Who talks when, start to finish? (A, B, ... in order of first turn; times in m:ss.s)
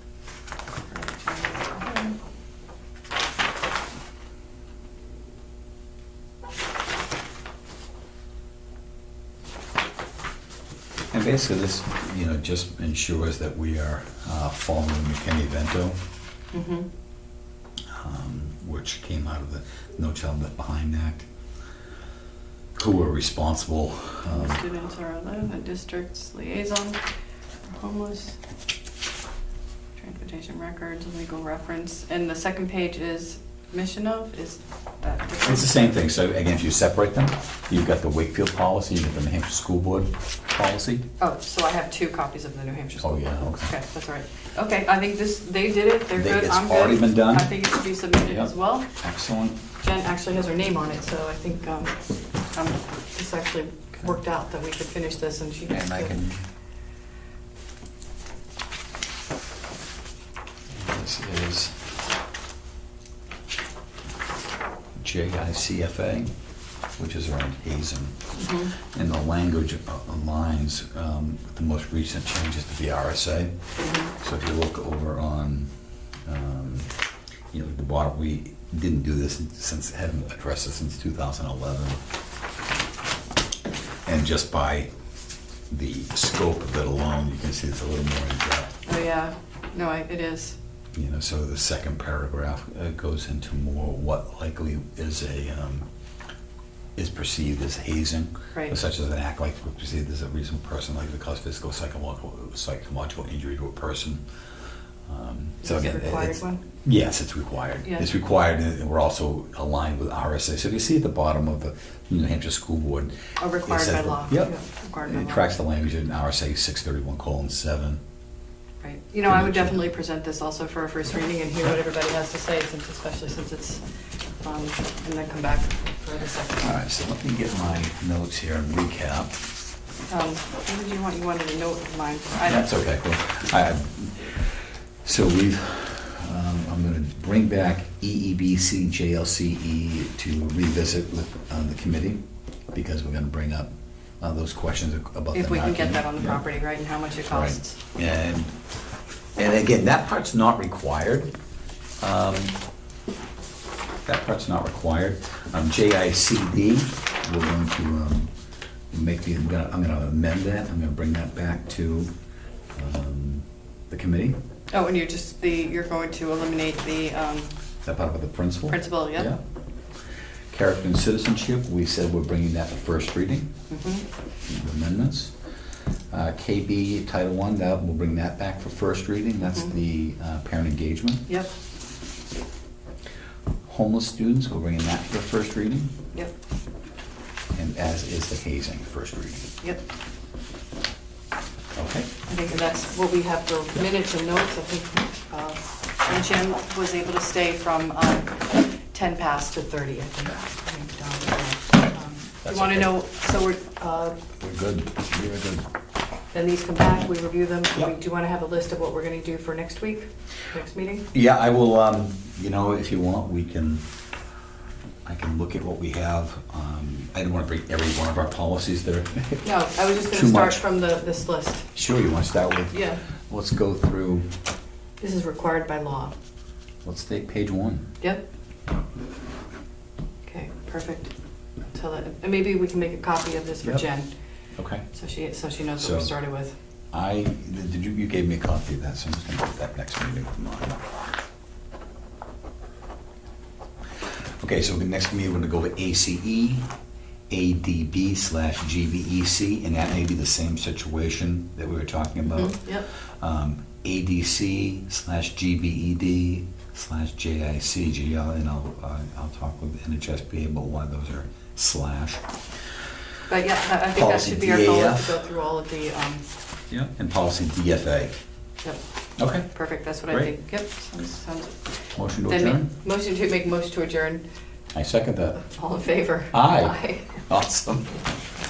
0:00.9-0:02.1 A
0:11.1-0:16.0 B
0:16.5-0:16.9 A
0:17.9-0:21.3 B
0:22.8-0:24.6 B
0:24.2-0:27.0 A
0:27.6-0:28.4 A
0:30.0-0:35.9 A
0:35.4-0:41.0 B
0:41.2-0:48.9 A
0:43.0-0:43.7 B
0:46.1-0:47.6 B
0:48.2-0:49.6 B
0:49.8-0:56.1 A
0:55.7-0:56.4 B
1:00.7-1:01.8 B
1:05.0-1:06.3 B
1:07.0-1:08.2 B
1:08.3-1:08.7 A
1:08.8-1:13.5 B
1:13.8-1:14.1 A
1:14.1-1:15.7 B
1:16.2-1:16.9 B
1:17.5-1:22.0 B
1:24.0-1:24.9 B
1:25.7-1:28.7 B
1:28.8-1:30.6 A
1:30.9-1:35.9 B
1:37.0-1:44.2 B
1:45.1-1:53.1 B
1:45.6-1:46.6 A
1:53.4-1:55.5 A
1:53.6-1:54.5 B
1:55.0-1:58.0 B
1:58.8-2:03.8 A
1:59.2-1:59.9 B
2:04.4-2:06.8 A
2:06.6-2:09.4 B
2:10.1-2:12.7 A
2:12.4-2:22.2 B
2:22.7-2:23.7 B
2:24.2-2:26.4 B
2:25.3-2:27.8 A
2:27.2-2:28.6 B
2:29.4-2:31.3 B
2:32.0-2:32.5 B
2:34.0-2:38.3 B
2:38.9-2:42.1 B
2:42.7-2:44.4 B
2:44.7-2:47.5 A
2:47.8-2:49.4 B
2:48.7-2:49.3 A
2:50.5-2:53.5 B
2:53.7-2:54.0 A
2:54.4-2:55.3 B
2:56.1-3:01.2 B
3:03.6-3:05.9 B
3:07.5-3:09.5 B
3:11.8-3:12.1 B
3:12.3-3:24.2 A
3:22.4-3:22.9 B
3:24.4-3:25.6 B
3:26.3-3:31.1 A
3:31.1-3:33.8 B
3:35.0-3:39.4 B
3:39.4-3:41.7 A
3:40.1-3:40.6 B
3:41.7-3:42.8 B
3:42.7-3:43.0 A
3:43.3-3:44.3 B
3:45.0-3:46.1 A
3:46.8-3:47.9 B
3:50.2-3:51.1 A
3:51.7-3:54.1 A
3:54.6-3:54.8 B
3:54.9-3:56.6 A
3:55.8-3:56.1 B
3:56.9-4:00.8 B
4:04.4-4:06.7 B
4:07.3-4:22.2 B
4:12.2-4:12.9 A
4:23.3-4:26.2 A
4:23.9-4:25.2 B
4:26.7-4:28.2 B
4:29.2-4:29.5 B
4:29.5-4:34.2 A
4:32.0-4:32.7 B
4:34.7-4:35.4 B
4:35.4-4:37.2 A
4:36.3-4:37.9 B